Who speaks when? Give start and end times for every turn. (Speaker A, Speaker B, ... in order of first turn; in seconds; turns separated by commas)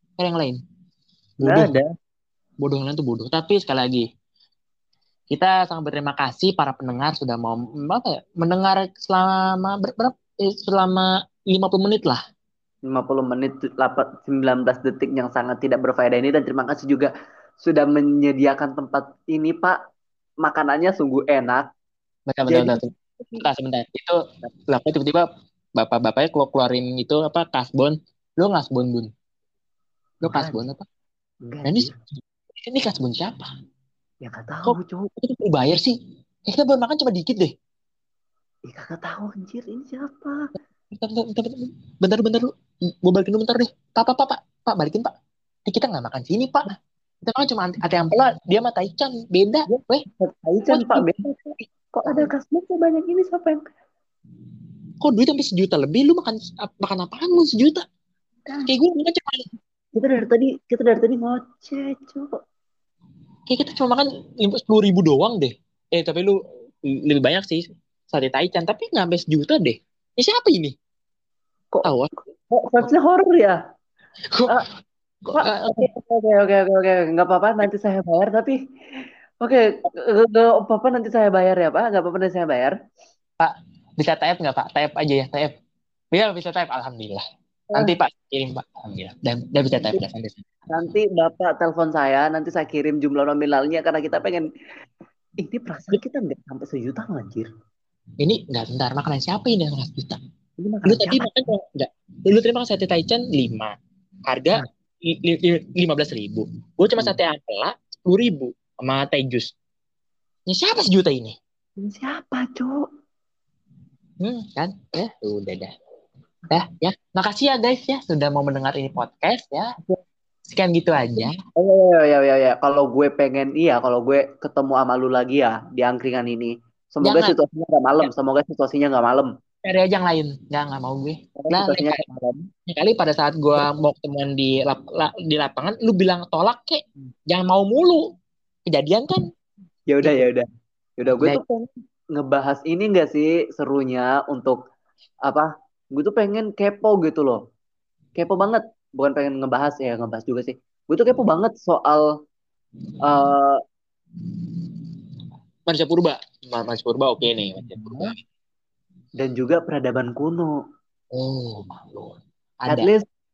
Speaker A: 0.2-0.6, Speaker A: 1.4-1.8, Speaker B: 1.4-1.9, Speaker A: 2.6-4.0, Speaker A: 5.3-12.2, Speaker B: 12.9-19.8, Speaker B: 20.4-21.7, Speaker A: 22.3-29.1, Speaker B: 22.5-23.4, Speaker B: 30.2-30.6, Speaker A: 30.2-30.8, Speaker B: 31.5-31.9, Speaker A: 31.6-33.5, Speaker B: 34.2-35.1, Speaker A: 34.6-35.9, Speaker A: 36.4-37.5, Speaker B: 38.7-40.5, Speaker A: 40.9-42.5, Speaker A: 43.0-45.1, Speaker A: 45.6-50.0, Speaker B: 49.7-53.6, Speaker A: 50.7-51.3, Speaker A: 55.0-57.8, Speaker B: 58.5-58.7, Speaker A: 58.7-59.5, Speaker B: 59.9-62.3, Speaker A: 63.5-70.8, Speaker A: 71.8-72.1, Speaker B: 72.5-73.6, Speaker B: 75.3-78.6, Speaker A: 75.4-75.9, Speaker B: 79.4-82.7, Speaker A: 83.4-85.5, Speaker A: 86.1-87.2, Speaker A: 87.7-90.4, Speaker B: 90.7-94.5, Speaker B: 95.4-97.5, Speaker A: 98.2-100.2, Speaker B: 100.6-101.3, Speaker A: 100.8-103.7, Speaker A: 104.3-109.5, Speaker A: 110.5-111.4, Speaker B: 111.8-112.8, Speaker A: 114.2-115.7, Speaker A: 116.5-119.7, Speaker A: 120.5-121.4, Speaker B: 121.5-129.3, Speaker A: 127.0-127.3, Speaker A: 129.6-132.0, Speaker B: 131.3-132.5, Speaker A: 132.7-138.1, Speaker A: 138.7-139.2, Speaker B: 139.9-140.4, Speaker A: 140.0-140.3, Speaker B: 141.0-144.6, Speaker B: 145.3-147.4, Speaker B: 148.2-152.0, Speaker B: 153.0-153.6, Speaker A: 155.7-158.2, Speaker B: 157.6-158.1, Speaker B: 159.2-160.5, Speaker A: 161.1-162.9, Speaker B: 162.7-163.1